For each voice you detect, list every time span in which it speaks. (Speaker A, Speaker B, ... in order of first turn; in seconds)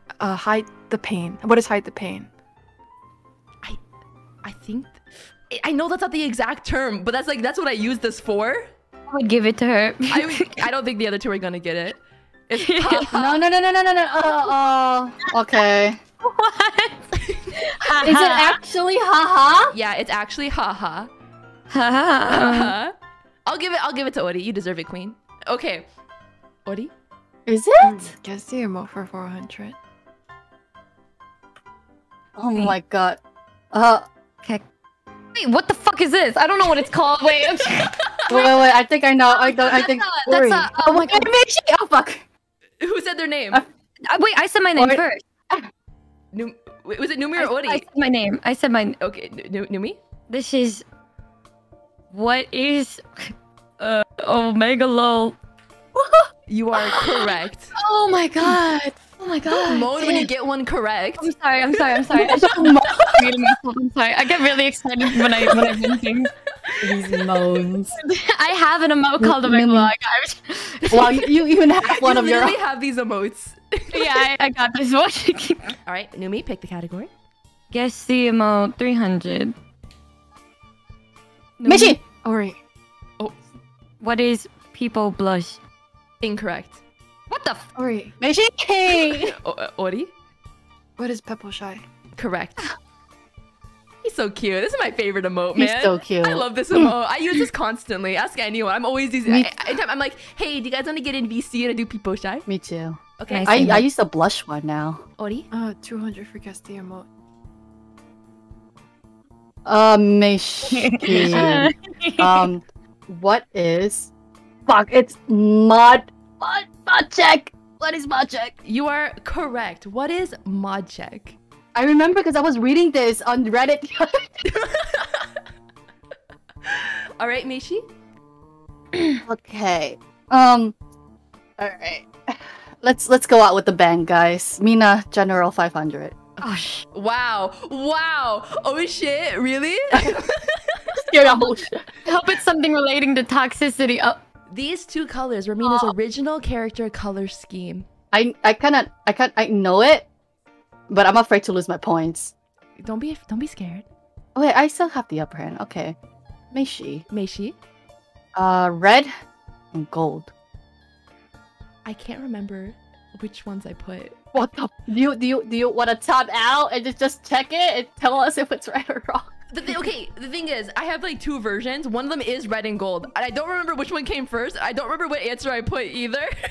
Speaker A: 0.2-2.3, 27.8-29.8, 82.2-82.6, 87.8-88.2, 91.0-91.8, 105.5-107.1
Speaker B: 4.4-8.7, 10.1-13.3, 17.2-17.5, 19.7-21.1, 22.3-22.9, 23.5-25.9, 26.7-26.9, 42.8-43.6, 46.3-47.9, 49.0-50.0, 56.5-57.7, 59.5-62.0, 62.9-63.2, 72.0-74.3, 75.8-77.1, 86.2-86.8, 89.3-90.1, 92.2-92.7, 94.0-102.5, 103.2-103.7, 105.2-105.5, 118.6-121.4, 124.4-125.3, 126.7-127.9, 136.9-141.0, 144.5-147.9, 152.8-153.9, 157.1-157.6, 161.8-164.2, 169.5-176.3
Speaker C: 9.1-10.7, 12.6-13.2, 16.2-18.6, 21.7-22.8, 35.3-38.5, 39.3-41.3, 44.1-45.2, 47.4-49.0, 50.3-50.8, 52.1-55.4, 57.8-60.3, 61.2-66.3, 68.0-71.3, 73.9-75.8, 77.7-79.5, 81.6-82.0, 84.0-85.6, 87.3-87.7, 103.3-103.8, 110.7-112.5, 128.9-129.2, 136.4-136.8, 142.1-144.2
Speaker D: 13.1-16.0, 18.0-19.7, 27.5-28.0, 32.4-33.2, 33.7-34.0, 38.3-42.2, 44.8-45.7, 62.1-63.0, 66.8-68.0, 69.2-69.9, 70.9-72.6, 81.7-82.0, 88.2-89.4, 95.6-96.9, 99.2-99.7, 102.5-105.0, 109.7-114.1, 114.7-118.5, 121.8-124.4, 129.3-130.8, 131.6-136.3, 139.9-140.2, 141.0-141.8, 148.1-150.1, 150.9-152.3, 154.3-156.0, 156.5-157.0, 158.4-159.1, 159.7-160.3, 164.3-169.3